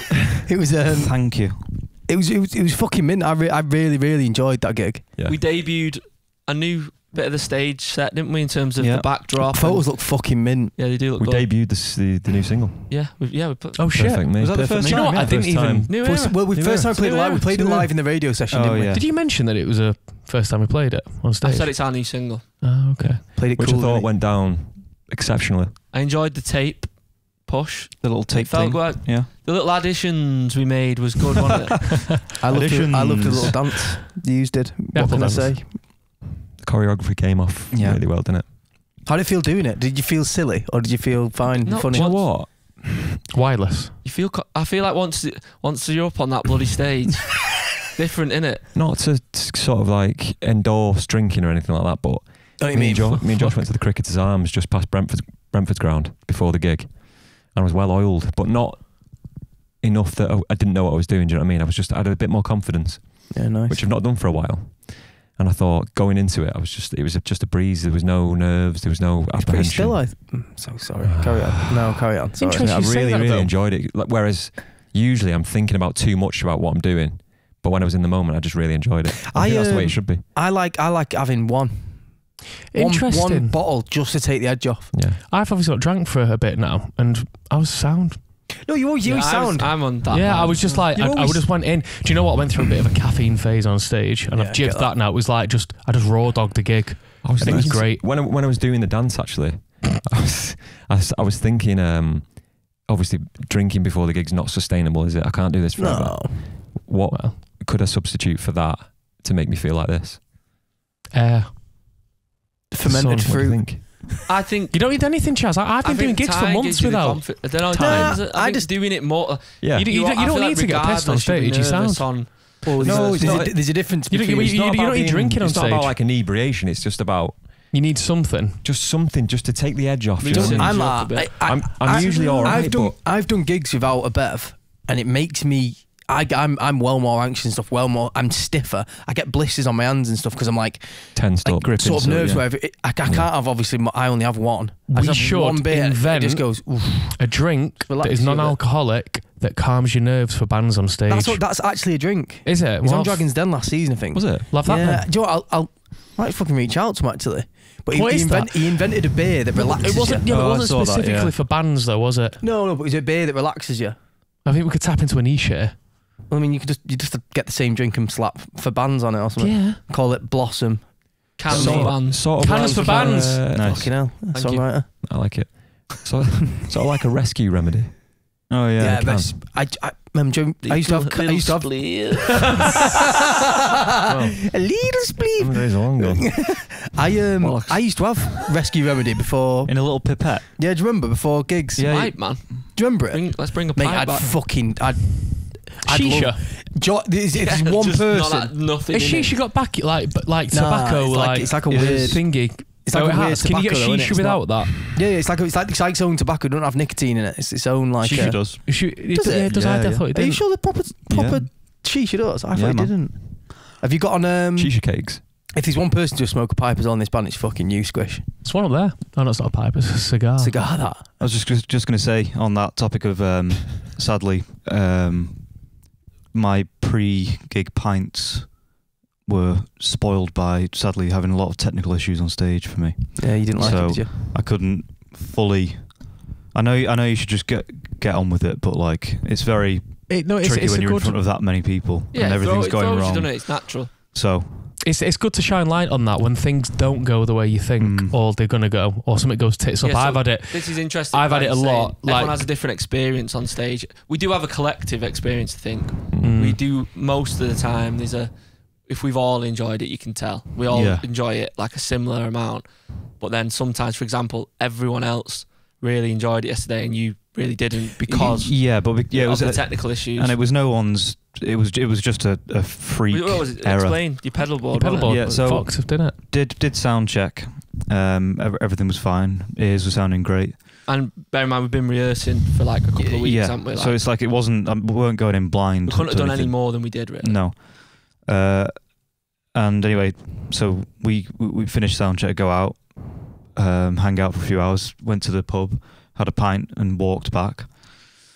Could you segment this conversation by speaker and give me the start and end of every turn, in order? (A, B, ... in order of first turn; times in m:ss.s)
0:00.4-0:05.1 A
0:00.9-0:01.8 B
0:05.2-0:11.5 C
0:08.8-0:09.1 B
0:09.4-0:10.8 A
0:11.1-0:12.9 D
0:12.9-0:13.9 C
0:13.8-0:15.9 E
0:13.9-0:17.2 D
0:14.4-0:15.4 B
0:15.9-0:17.6 C
0:15.9-0:19.0 A
0:17.5-0:17.9 E
0:18.5-0:19.0 B
0:18.8-0:23.2 E
0:21.4-0:22.6 C
0:23.4-0:24.1 A
0:23.5-0:25.8 D
0:25.9-0:32.2 C
0:28.0-0:29.3 B
0:32.4-0:35.8 A
0:32.5-0:33.5 B
0:34.9-0:35.6 E
0:36.6-0:38.6 D
0:37.7-0:38.2 B
0:39.0-0:42.3 A
0:41.6-0:42.3 C
0:41.8-0:42.5 D
0:43.3-0:44.0 E
0:44.0-0:48.7 C
0:48.7-1:10.1 D
0:52.6-0:53.6 A
1:03.3-1:03.8 A
1:09.3-1:12.6 A
1:11.0-1:20.3 D
1:12.4-1:13.6 E
1:19.3-1:24.9 A
1:22.7-1:23.6 E
1:24.9-1:25.2 D
1:25.1-1:28.5 E
1:28.6-1:29.9 A
1:29.0-1:30.8 C
1:30.1-1:38.1 E
1:30.9-1:31.7 A
1:34.3-1:35.0 A
1:37.2-1:50.2 D
1:45.8-1:46.7 A
1:47.1-1:47.4 E
1:51.1-1:51.6 E
1:52.7-1:54.2 A
1:52.8-1:53.7 E
1:53.3-1:54.0 D
1:54.2-1:55.0 C
1:54.7-1:58.2 E
1:55.8-2:03.5 C
1:57.7-1:58.8 A
1:59.6-1:59.9 D
1:59.7-2:02.3 E
2:02.6-2:04.6 A
2:02.8-2:07.7 D
2:03.8-2:06.0 E
2:07.7-2:08.6 E
2:08.6-2:13.0 D
2:10.2-2:12.2 C
2:10.3-2:28.6 A
2:21.2-2:23.3 D
2:24.9-2:31.7 E
2:25.1-2:25.4 D
2:31.1-2:40.2 A
2:32.4-2:33.3 E
2:34.1-2:34.6 D
2:34.5-2:35.1 E
2:37.9-2:42.4 E
2:40.3-2:41.3 B
2:42.4-2:44.0 A
2:44.4-2:45.8 E
2:46.3-2:52.0 A
2:49.4-2:49.8 E
2:51.4-2:53.4 C
2:51.5-2:54.1 D
2:52.0-2:53.4 E
2:52.7-2:53.0 A
2:53.5-2:54.0 B
2:53.6-2:55.0 A
2:54.3-2:54.8 C
2:54.9-2:59.3 D
2:55.9-2:56.7 A
2:58.5-2:59.2 B
2:58.8-3:02.7 A
3:00.6-3:02.8 C
3:04.1-3:18.6 A
3:04.1-3:04.3 E
3:05.4-3:06.3 D
3:07.4-3:08.2 C
3:09.7-3:10.5 B
3:11.8-3:12.7 B
3:11.9-3:14.4 C
3:15.8-3:16.4 E
3:17.3-3:19.4 C
3:18.9-3:25.0 E
3:20.5-3:38.3 A
3:21.7-3:22.2 B
3:28.0-3:28.9 B
3:28.2-3:30.8 E
3:29.5-3:30.1 B
3:31.1-3:31.8 B
3:32.5-3:33.0 B
3:34.6-3:35.3 D
3:38.4-3:40.6 E
3:40.4-3:41.2 A
3:41.2-3:48.6 B
3:49.2-4:04.7 B
3:53.2-3:54.1 A
3:53.5-3:54.0 C
4:00.1-4:01.2 E
4:02.1-4:03.9 C
4:04.8-4:12.4 E
4:07.8-4:08.2 B
4:09.8-4:30.4 C
4:16.1-4:16.4 D
4:16.2-4:16.6 E
4:20.7-4:21.1 B
4:28.0-4:40.6 B
4:33.1-4:35.3 C
4:34.7-4:36.2 E
4:40.9-4:44.0 C
4:43.0-4:58.2 B
4:45.9-4:47.4 C